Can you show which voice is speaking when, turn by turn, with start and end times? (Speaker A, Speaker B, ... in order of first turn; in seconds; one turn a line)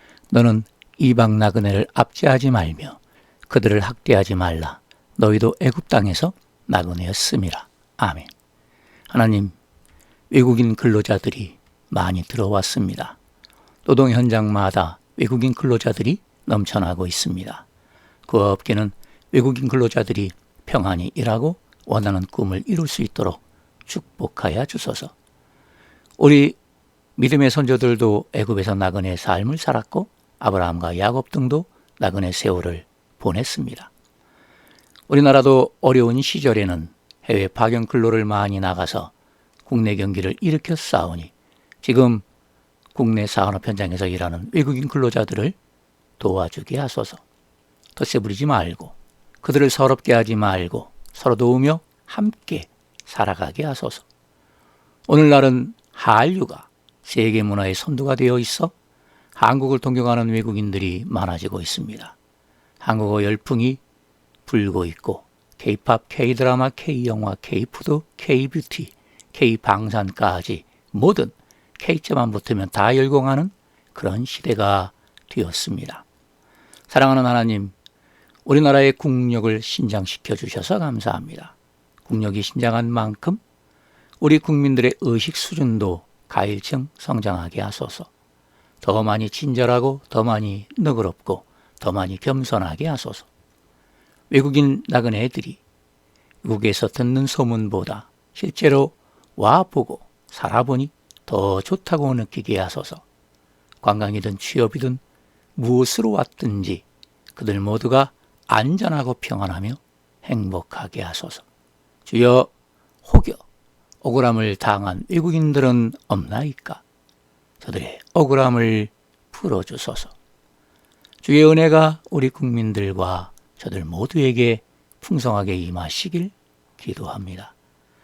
Speaker A: 0.3-8.3
Speaker A: 9.1-9.5
Speaker A: 10.3-13.2
Speaker A: 13.8-17.6
Speaker A: 18.2-25.1
Speaker A: 26.2-26.6
Speaker A: 27.2-33.9
Speaker A: 35.1-39.1
Speaker A: 39.6-42.2
Speaker A: 42.9-45.5
Speaker A: 46.2-47.2
Speaker A: 48.0-54.0
Speaker A: 55.1-58.7
Speaker A: 59.4-62.1
Speaker A: 62.8-63.8
Speaker A: 64.5-76.0
Speaker A: 76.9-77.7
Speaker A: 78.5-81.5
Speaker A: 82.0-83.4
Speaker A: 84.2-88.1
Speaker A: 88.8-93.3
Speaker A: 94.3-95.6
Speaker A: 96.4-103.0
Speaker A: 103.8-105.0
Speaker A: 105.5-111.4
Speaker A: 112.0-112.5
Speaker A: 113.0-113.4
Speaker A: 114.0-116.8
Speaker A: 117.6-120.1
Speaker A: 121.2-127.5